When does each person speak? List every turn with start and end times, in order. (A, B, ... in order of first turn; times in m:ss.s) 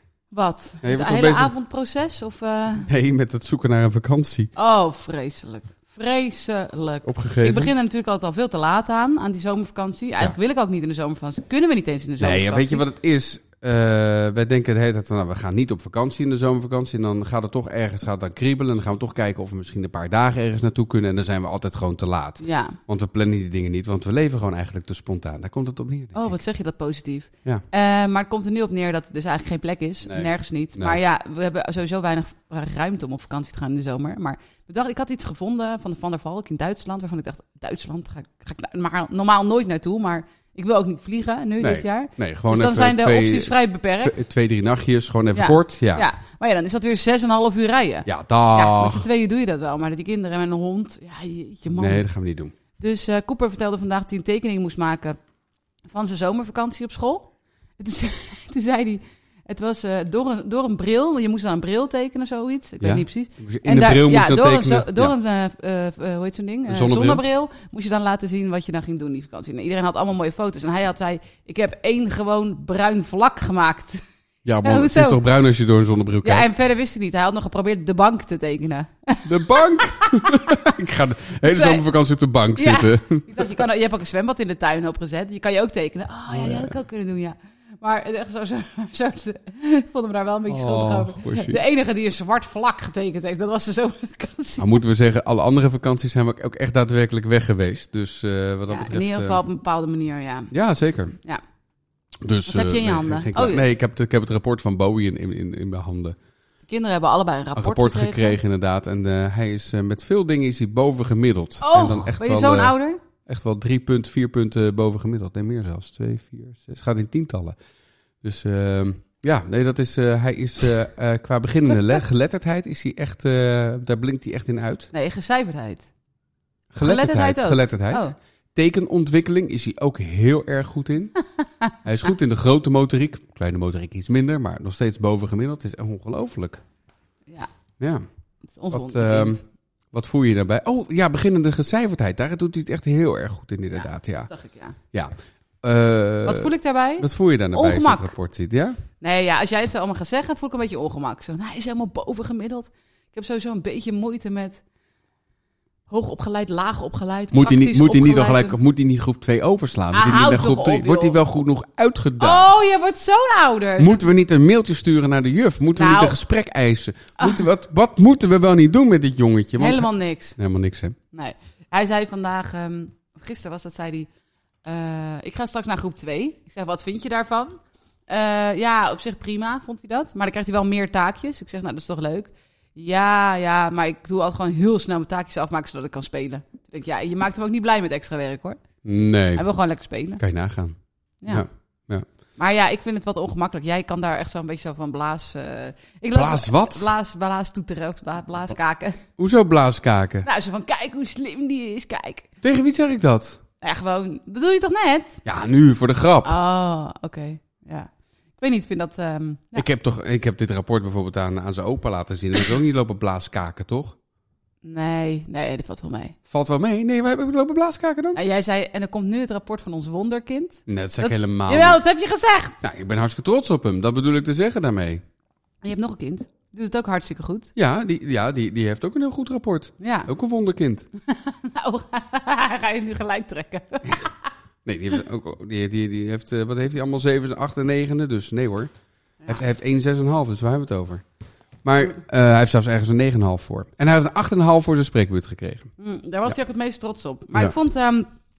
0:00.3-0:02.9 A
0:00.8-0:01.5 B
0:02.8-0:04.5 B
0:04.6-0:12.8 A
0:07.0-0:07.7 B
0:12.2-0:26.4 B
0:22.4-0:22.8 A
0:26.1-0:44.2 A
0:30.0-0:31.0 B
0:41.6-0:46.1 B
0:45.3-0:52.0 A
0:48.0-0:49.1 B
0:51.7-0:52.5 B
0:52.8-0:55.2 A
0:55.9-1:14.0 A
1:02.8-1:05.1 B
1:06.7-1:07.2 B
1:14.4-1:16.5 B
1:14.6-1:15.2 A
1:16.2-1:20.2 A
1:19.2-1:23.6 B
1:21.4-1:21.8 A
1:22.6-1:34.8 A
1:26.3-1:26.7 B
1:30.5-1:31.6 B
1:34.6-1:39.4 B
1:38.7-1:40.5 A
1:40.5-1:41.1 B
1:42.2-1:46.2 B
1:42.5-1:43.6 A
1:46.6-1:48.4 A
1:47.6-1:57.6 B
1:51.6-1:53.0 A
1:58.2-2:04.9 B
2:04.9-2:05.9 A
2:06.7-2:11.2 B
2:06.8-2:08.1 A
2:11.8-2:16.6 B
2:18.4-2:19.4 A
2:18.7-2:19.4 B
2:19.9-2:24.3 B
2:23.7-2:24.8 A
2:24.9-2:28.8 B
2:26.2-2:28.1 A
2:29.0-2:34.6 A
2:35.9-2:38.6 A
2:37.3-2:42.6 B
2:39.9-2:41.2 A
2:42.2-2:44.0 A
2:43.8-2:51.0 B
2:45.8-2:46.2 A
2:47.2-2:47.4 A
2:49.6-2:50.4 A
2:51.1-2:54.1 A
2:54.6-3:08.7 A
3:08.8-3:09.5 B
3:09.3-3:10.2 A
3:10.2-3:10.8 B
3:11.3-3:12.0 B
3:12.4-3:19.0 A
3:16.1-3:16.9 B
3:19.2-3:20.3 B
3:20.2-3:22.3 A
3:22.4-3:23.4 B
3:23.6-3:25.2 A
3:25.2-3:26.3 B
3:26.2-3:29.6 A
3:29.5-3:34.0 B
3:34.6-3:36.1 A
3:36.3-3:38.2 B
3:38.1-3:42.6 A
3:40.7-3:41.8 B
3:42.6-3:45.0 B
3:45.6-3:47.5 A
3:47.6-3:50.9 B
3:49.8-3:50.1 A
3:51.1-3:54.3 A
3:54.6-3:58.7 B
3:59.2-4:01.0 B
4:01.6-4:05.7 B
4:05.8-4:08.1 A